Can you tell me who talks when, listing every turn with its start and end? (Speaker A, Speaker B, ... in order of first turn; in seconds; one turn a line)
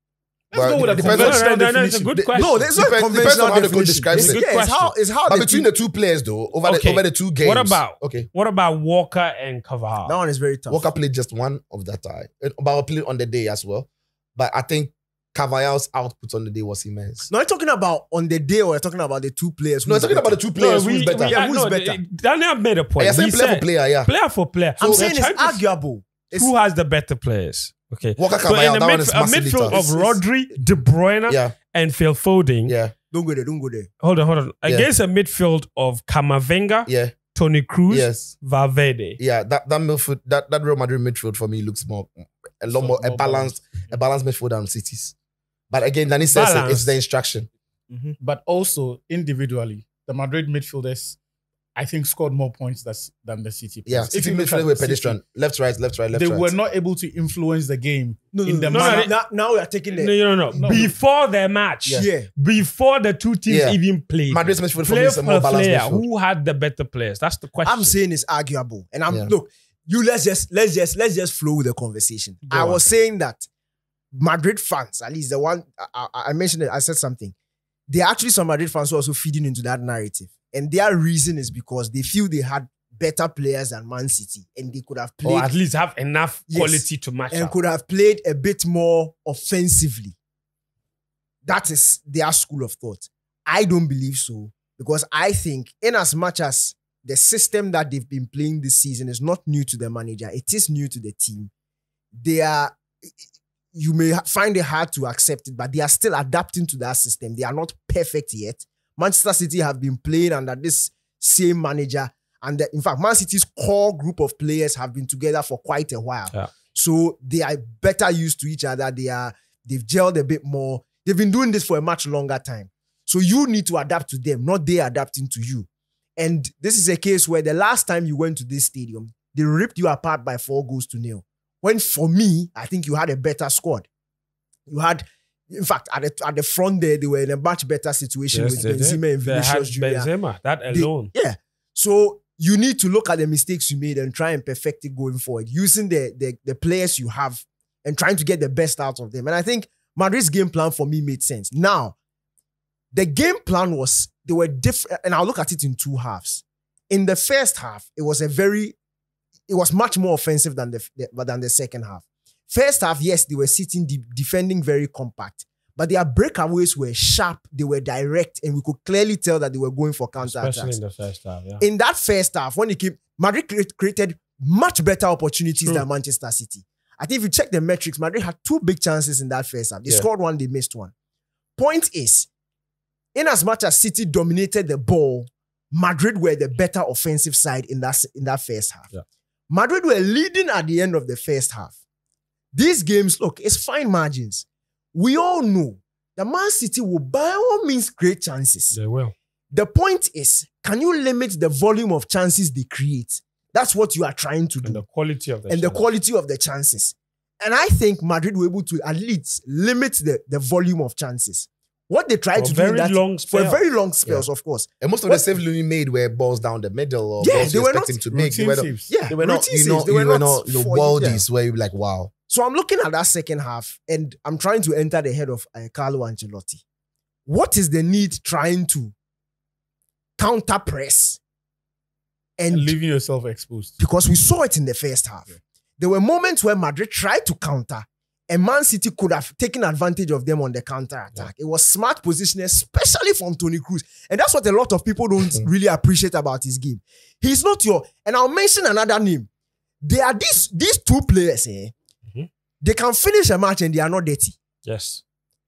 Speaker A: 0.5-2.2
Speaker B: 0.5-1.4
Speaker C: 0.9-2.6
Speaker B: 2.1-4.6
Speaker D: 2.3-5.7
Speaker C: 4.1-4.9
Speaker B: 5.3-8.3
Speaker C: 6.6-10.1
Speaker D: 10.0-10.9
Speaker B: 10.7-17.3
Speaker D: 17.3-20.4
Speaker B: 19.9-21.4
Speaker C: 20.6-25.6
Speaker D: 21.3-22.0
Speaker B: 23.0-24.1
Speaker B: 24.8-25.1
Speaker D: 24.8-26.5
Speaker C: 26.3-32.7
Speaker B: 28.2-29.8
Speaker D: 29.7-30.2
Speaker B: 31.3-31.5
Speaker B: 32.7-32.9
Speaker D: 33.1-33.9
Speaker C: 34.0-39.2
Speaker B: 36.9-37.1
Speaker B: 37.9-38.3
Speaker B: 39.2-45.1
Speaker A: 42.7-43.9
Speaker B: 45.7-47.5
Speaker C: 46.3-46.9
Speaker D: 47.9-48.2
Speaker A: 48.2-51.2
Speaker A: 51.8-55.2
Speaker B: 53.9-56.5
Speaker A: 56.1-59.1
Speaker D: 58.3-60.1
Speaker C: 58.7-59.1
Speaker C: 59.9-68.0
Speaker A: 60.5-60.9
Speaker D: 61.9-62.3
Speaker B: 63.5-63.8
Speaker B: 64.3-66.0
Speaker D: 67.6-73.5
Speaker A: 72.5-72.8
Speaker D: 74.1-77.3
Speaker D: 77.9-85.5
Speaker C: 85.2-87.5
Speaker D: 86.5-90.1
Speaker D: 91.4-101.5
Speaker D: 102.2-102.8
Speaker D: 103.7-133.9
Speaker D: 134.7-140.1
Speaker C: 138.3-141.1
Speaker D: 140.7-152.0
Speaker D: 152.9-158.8
Speaker D: 159.5-170.8
Speaker C: 170.2-171.6
Speaker D: 171.6-180.9
Speaker D: 181.6-182.3
Speaker D: 183.1-188.9
Speaker D: 189.5-191.7
Speaker D: 192.5-198.8
Speaker C: 198.7-199.1
Speaker D: 199.5-204.8
Speaker C: 204.6-205.8
Speaker D: 205.5-215.3
Speaker C: 212.3-213.6
Speaker B: 214.8-222.1
Speaker D: 217.2-218.0
Speaker A: 218.1-218.9
Speaker D: 218.9-221.2
Speaker D: 222.3-226.6
Speaker D: 227.2-228.9
Speaker D: 230.2-231.2
Speaker D: 232.4-232.7
Speaker A: 232.5-233.8
Speaker D: 233.8-249.3
Speaker D: 249.8-251.7
Speaker D: 252.6-254.3
Speaker C: 254.6-255.0